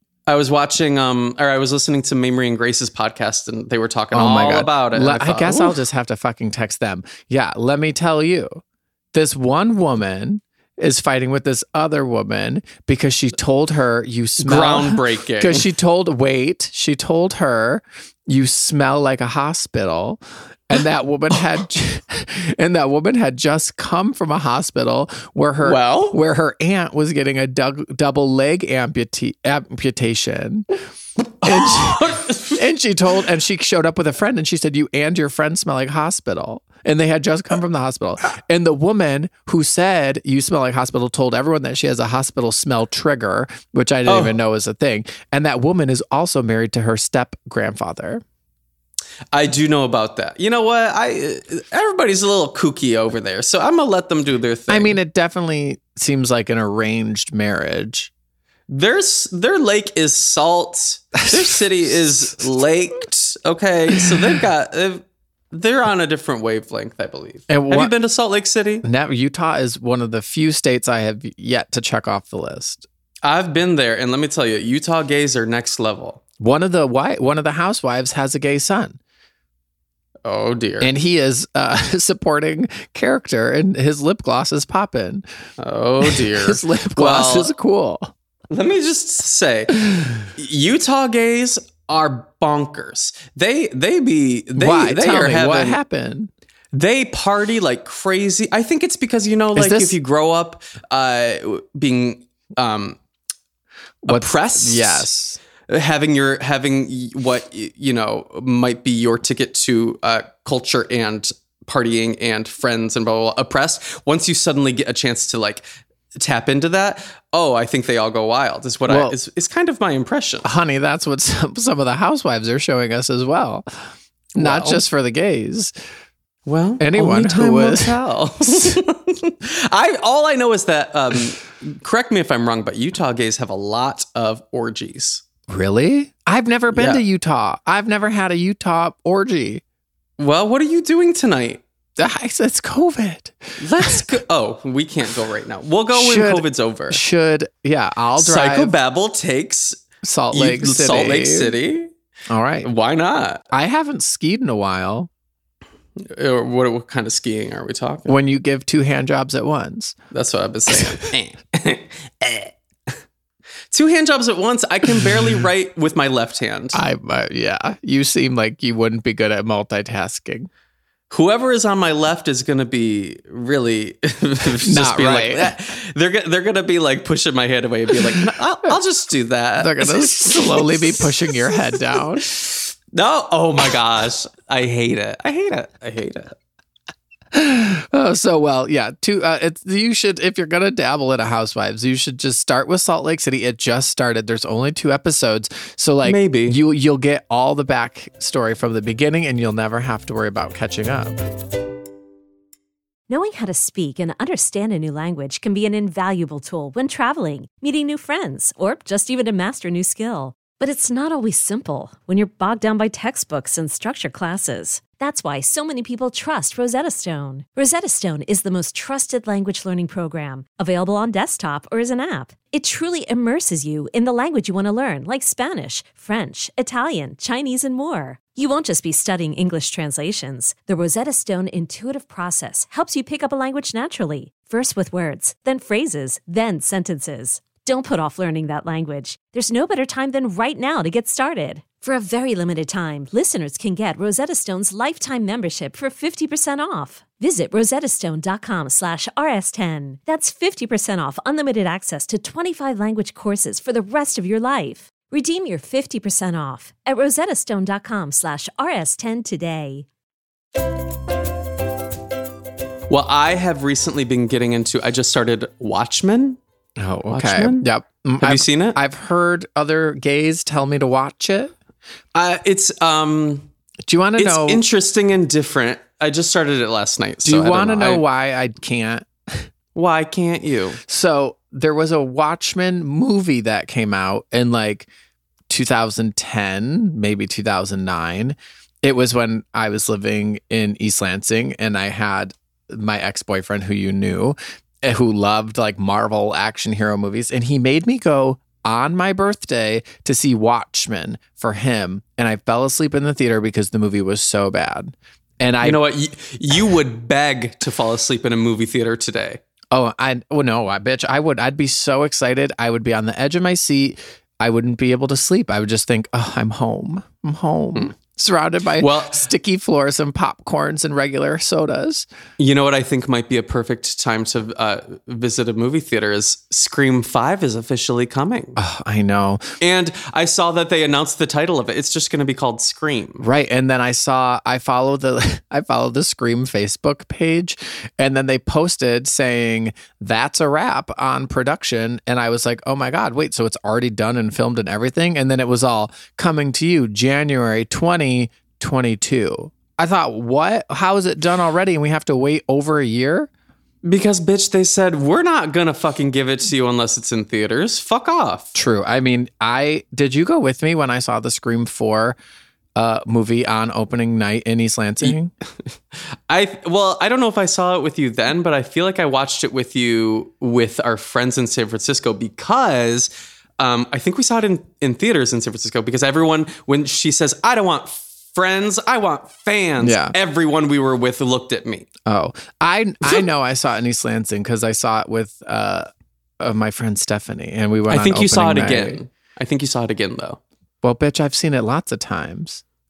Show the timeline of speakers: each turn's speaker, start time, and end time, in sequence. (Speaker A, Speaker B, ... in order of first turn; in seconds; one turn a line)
Speaker A: 0.3-5.8
Speaker B: 4.1-8.6
Speaker B: 9.1-30.7
Speaker A: 14.4-15.7
Speaker A: 25.6-26.2
Speaker A: 31.4-32.6
Speaker B: 31.4-48.2
Speaker A: 44.0-44.4
Speaker A: 49.3-55.0
Speaker B: 54.7-58.1
Speaker A: 58.7-68.8
Speaker B: 67.5-67.9
Speaker B: 68.8-72.8
Speaker A: 73.2-76.2
Speaker B: 76.4-79.0
Speaker A: 80.2-80.9
Speaker B: 80.8-85.2
Speaker A: 85.6-87.5
Speaker B: 86.0-88.1
Speaker A: 88.5-95.8
Speaker B: 94.5-96.3
Speaker A: 96.7-103.0
Speaker B: 99.5-100.0
Speaker B: 104.0-105.4
Speaker A: 104.1-105.1
Speaker A: 105.7-115.6
Speaker A: 116.2-120.5
Speaker B: 118.9-119.2
Speaker B: 120.4-123.7
Speaker A: 124.3-124.8
Speaker B: 124.3-125.7
Speaker A: 126.5-135.2
Speaker B: 126.8-128.0
Speaker B: 128.5-128.8
Speaker B: 135.5-139.6
Speaker A: 136.7-137.0
Speaker A: 140.2-141.6
Speaker B: 142.0-144.1
Speaker A: 143.6-147.0
Speaker B: 145.9-148.7
Speaker A: 148.2-151.9
Speaker B: 150.0-151.5
Speaker B: 152.3-152.7
Speaker A: 152.6-153.4
Speaker B: 153.5-155.1
Speaker A: 156.0-158.1
Speaker B: 158.1-159.9
Speaker A: 160.1-162.5
Speaker A: 163.7-166.8
Speaker B: 166.7-170.5
Speaker A: 171.1-181.3
Speaker B: 174.6-175.5
Speaker B: 179.6-182.3
Speaker A: 182.3-186.3
Speaker B: 187.3-201.2
Speaker A: 196.0-196.6
Speaker C: 203.1-259.9
Speaker A: 262.9-266.4
Speaker B: 266.8-271.5
Speaker A: 267.1-267.7
Speaker A: 268.2-268.8
Speaker A: 272.1-273.5
Speaker B: 273.8-274.6
Speaker A: 274.2-278.0
Speaker B: 277.2-279.4
Speaker A: 279.7-280.8
Speaker B: 280.9-284.9
Speaker B: 285.5-305.8
Speaker A: 305.6-309.4
Speaker B: 309.7-322.1
Speaker A: 318.8-319.2
Speaker A: 322.4-328.6
Speaker B: 328.6-329.6
Speaker A: 329.6-333.2
Speaker B: 333.2-353.3
Speaker A: 353.8-358.5
Speaker B: 358.5-362.2
Speaker B: 362.8-365.3
Speaker A: 366.3-381.9
Speaker B: 379.8-380.1
Speaker B: 382.1-385.9
Speaker B: 386.4-389.0
Speaker A: 387.9-390.4
Speaker B: 390.8-392.6